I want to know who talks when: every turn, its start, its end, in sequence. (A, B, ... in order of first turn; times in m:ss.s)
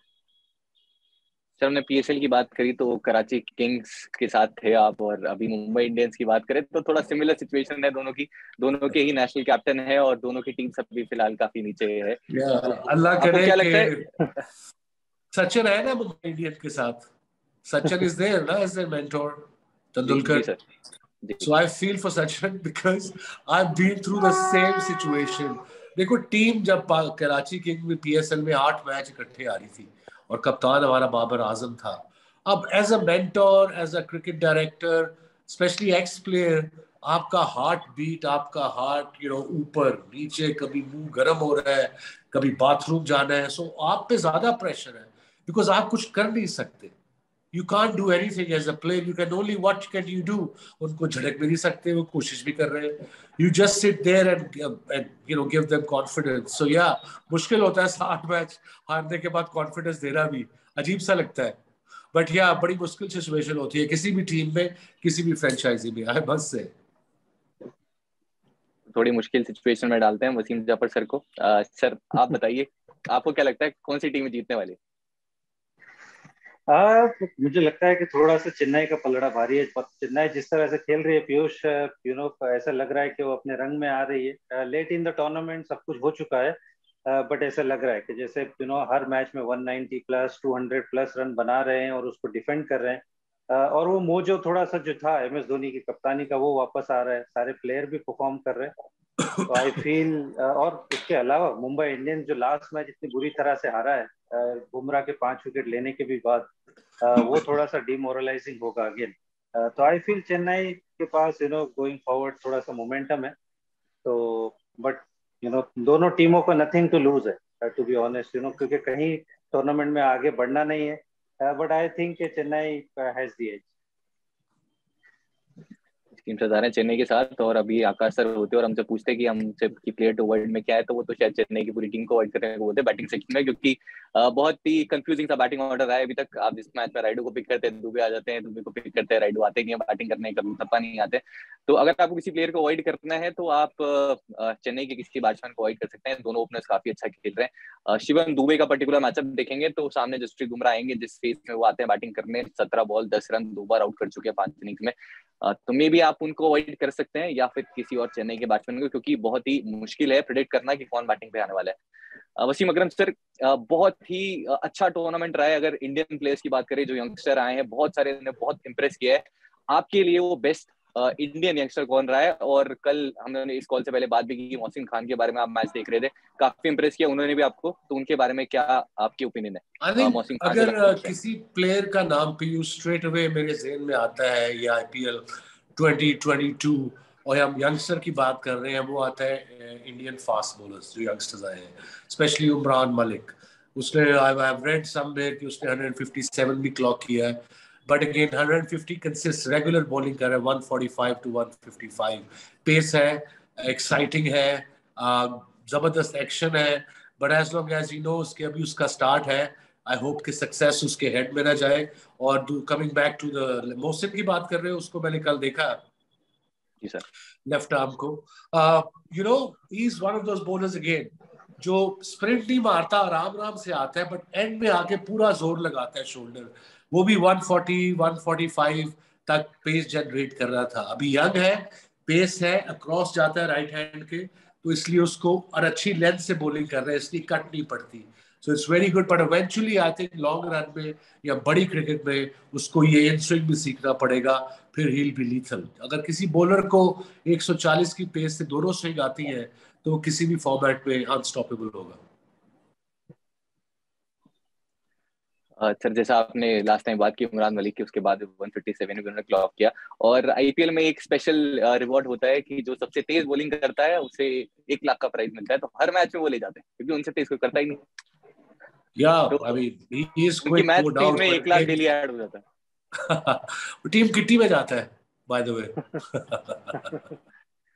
0:01.6-0:12.2 A
0:12.3-0:14.0 B
0:13.2-0:14.1 A
0:15.3-0:17.0 B
0:17.6-0:20.5 B
0:20.0-0:20.6 A
0:21.2-0:21.5 A
0:21.4-0:46.9 B
0:47.5-1:01.6 B
1:02.1-1:06.7 B
1:08.9-1:14.8 A
1:16.7-1:38.7 C
1:39.4-1:46.5 C
1:47.0-1:53.3 C
1:54.0-2:03.7 C
2:06.2-2:41.8 A
2:42.4-3:01.1 A
2:59.8-3:05.2 B
3:05.8-3:35.8 B
3:37.4-4:12.0 B
4:15.6-4:27.8 A
4:29.0-4:31.8 B
4:30.4-4:32.4 A
4:32.9-4:37.0 B